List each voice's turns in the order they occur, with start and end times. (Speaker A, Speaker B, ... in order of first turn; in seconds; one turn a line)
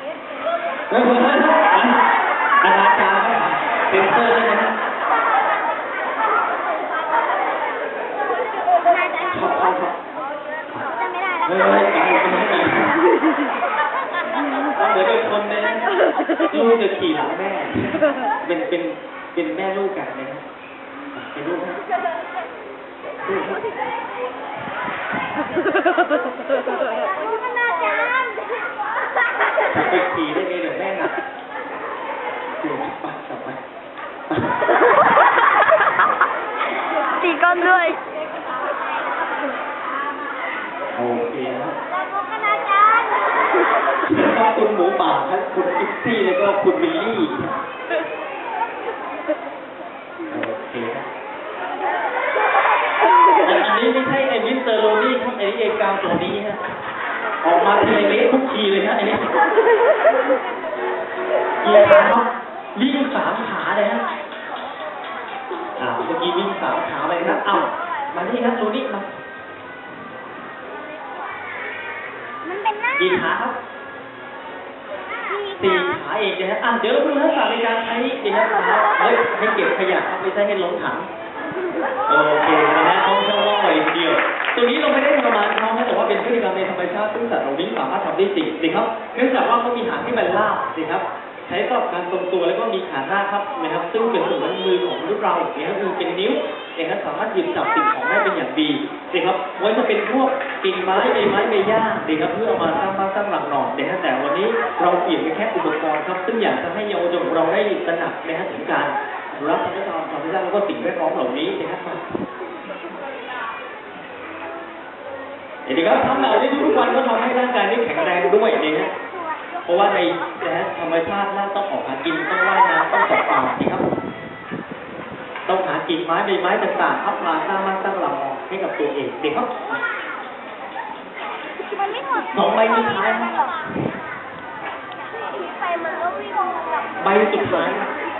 Speaker A: 0.9-4.7
Speaker B: 8.7-9.6
Speaker A: 9.3-9.9
Speaker B: 10.8-11.7
Speaker A: 11.4-12.9
Speaker A: 14.8-15.8
Speaker A: 16.5-20.4
Speaker A: 21.1-21.8
Speaker A: 23.2-23.6
Speaker B: 26.7-28.9
Speaker A: 29.7-31.2
Speaker A: 32.6-33.6
Speaker B: 37.2-38.0
Speaker A: 40.9-41.8
Speaker B: 42.4-43.1
Speaker A: 44.0-47.6
Speaker A: 50.3-51.0
Speaker A: 53.4-56.6
Speaker A: 57.4-59.3
Speaker A: 61.6-64.0
Speaker A: 65.8-69.1
Speaker B: 72.4-73.2
Speaker A: 73.0-73.6
Speaker B: 75.3-76.0
Speaker A: 75.6-81.1
Speaker A: 82.1-112.0
Speaker A: 115.7-118.9
Speaker A: 119.7-123.8
Speaker A: 125.5-129.8
Speaker B: 131.6-133.6
Speaker A: 132.3-133.3
Speaker B: 135.4-136.9
Speaker A: 137.0-137.9